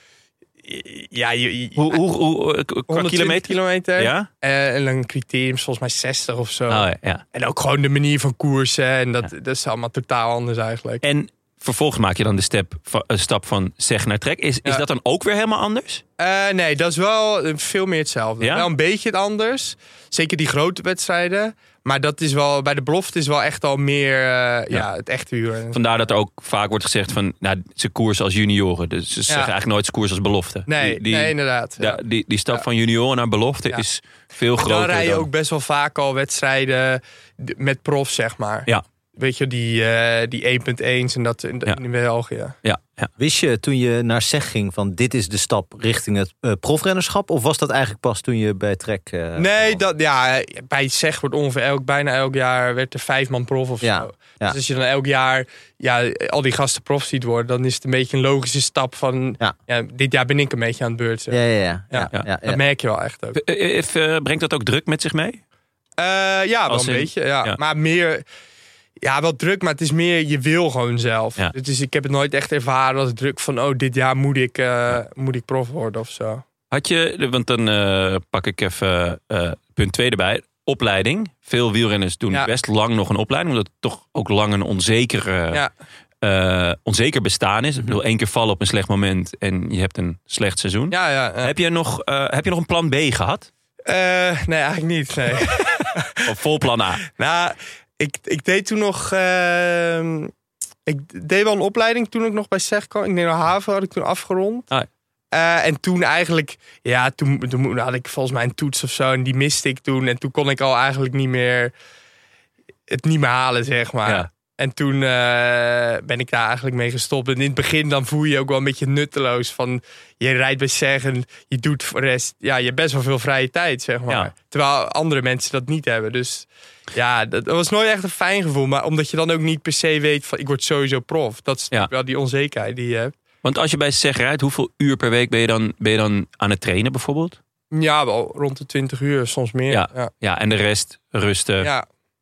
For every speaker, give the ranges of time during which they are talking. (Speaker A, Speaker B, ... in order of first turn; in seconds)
Speaker A: 0.6-2.0, 2.9-11.0, 16.2-25.8, 30.7-32.0, 34.6-42.5, 49.4-63.4, 66.0-68.2, 69.0-76.4, 90.9-91.5, 93.9-96.3, 97.1-100.3, 100.9-104.7, 105.3-111.7, 112.9-133.1, 137.7-140.1
Speaker B: 1.8-4.3, 6.7-7.2, 11.0-16.0, 18.4-18.7, 25.7-35.3, 42.6-43.1, 63.4-65.4, 66.7-67.6, 76.7-85.7, 86.2-93.5, 96.2-97.0, 133.4-137.4, 139.7-141.7
Speaker C: 43.2-49.8, 53.8-54.6, 61.3-62.6